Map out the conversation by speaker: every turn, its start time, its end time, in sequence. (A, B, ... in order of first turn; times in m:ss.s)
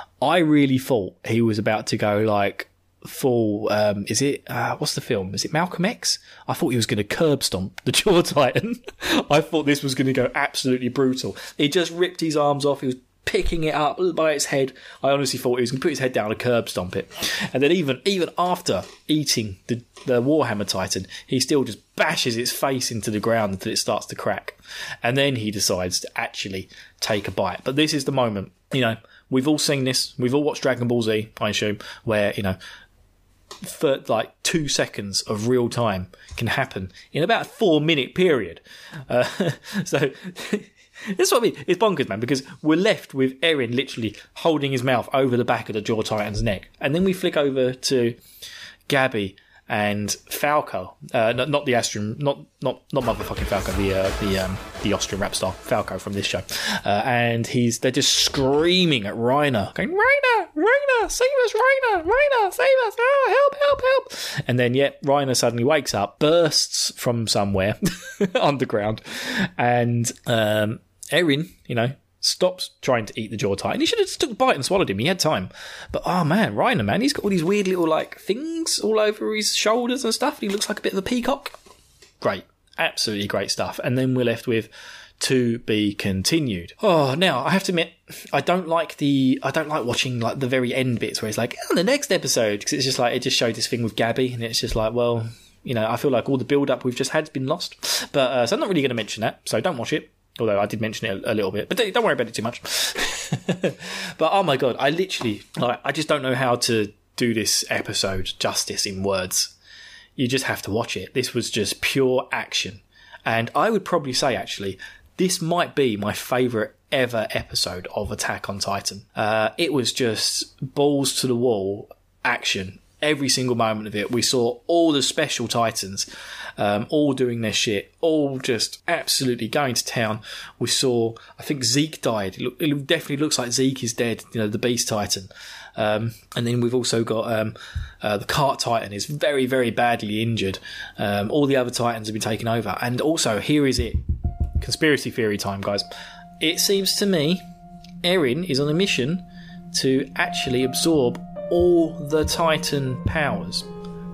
0:00.2-0:32.6 A
0:33.6-0:48.2 A
0:48.9-1:21.6 A
1:22.2-1:49.5 A
1:50.2-2:24.0 A
2:24.6-2:25.8 A
2:26.4-2:27.4 A
2:28.0-2:33.7 A